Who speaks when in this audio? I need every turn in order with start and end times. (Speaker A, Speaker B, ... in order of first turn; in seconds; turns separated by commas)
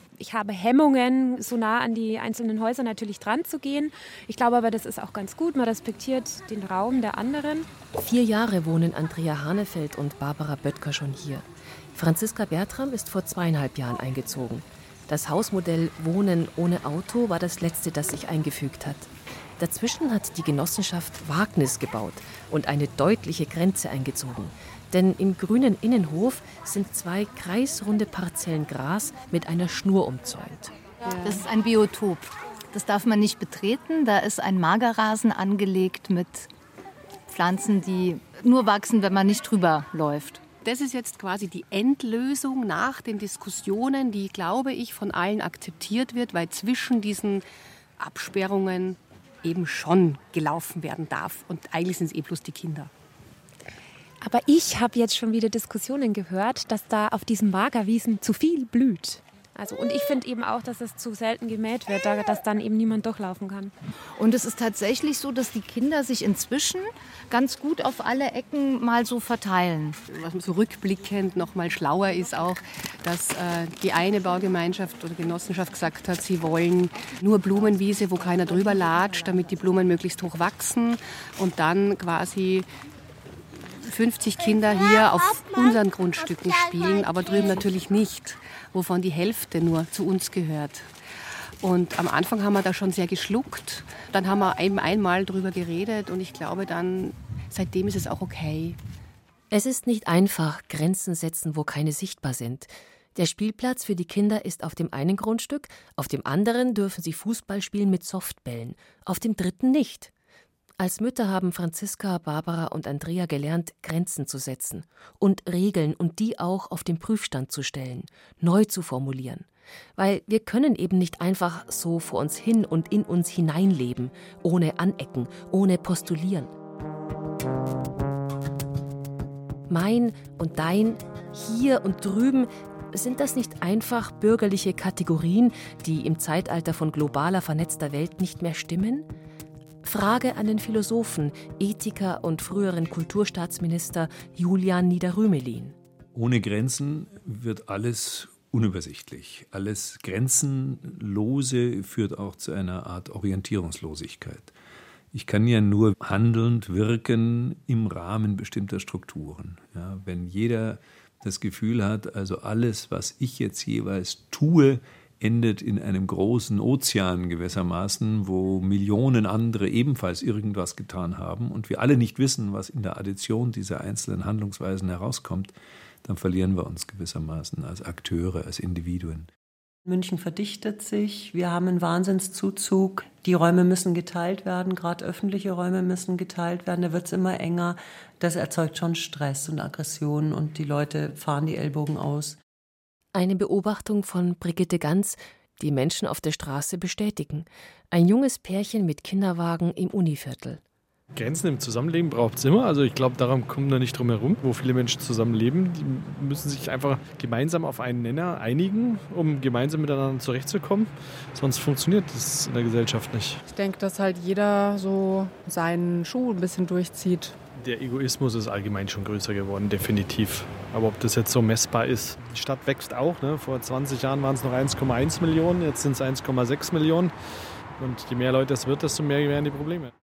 Speaker A: 0.2-7.7, Speaker B: 7.9-30.7, Speaker C: 31.0-31.4, Speaker D: 31.2-36.5, Speaker D: 37.3-40.4, Speaker E: 40.6-47.4, Speaker E: 48.0-52.9, Speaker A: 54.2-63.7, Speaker D: 64.2-70.0, Speaker E: 70.1-82.7, Speaker E: 83.6-90.9, Speaker E: 91.6-98.8, Speaker B: 99.5-110.1, Speaker B: 110.8-126.5, Speaker B: 129.7-139.1, Speaker B: 139.8-145.7, Speaker F: 146.1-154.5, Speaker F: 155.1-179.3, Speaker G: 179.8-192.4, Speaker B: 193.1-200.6, Speaker H: 201.1-213.4, Speaker C: 213.4-217.3, Speaker H: 217.6-227.1, Speaker H: 227.8-229.9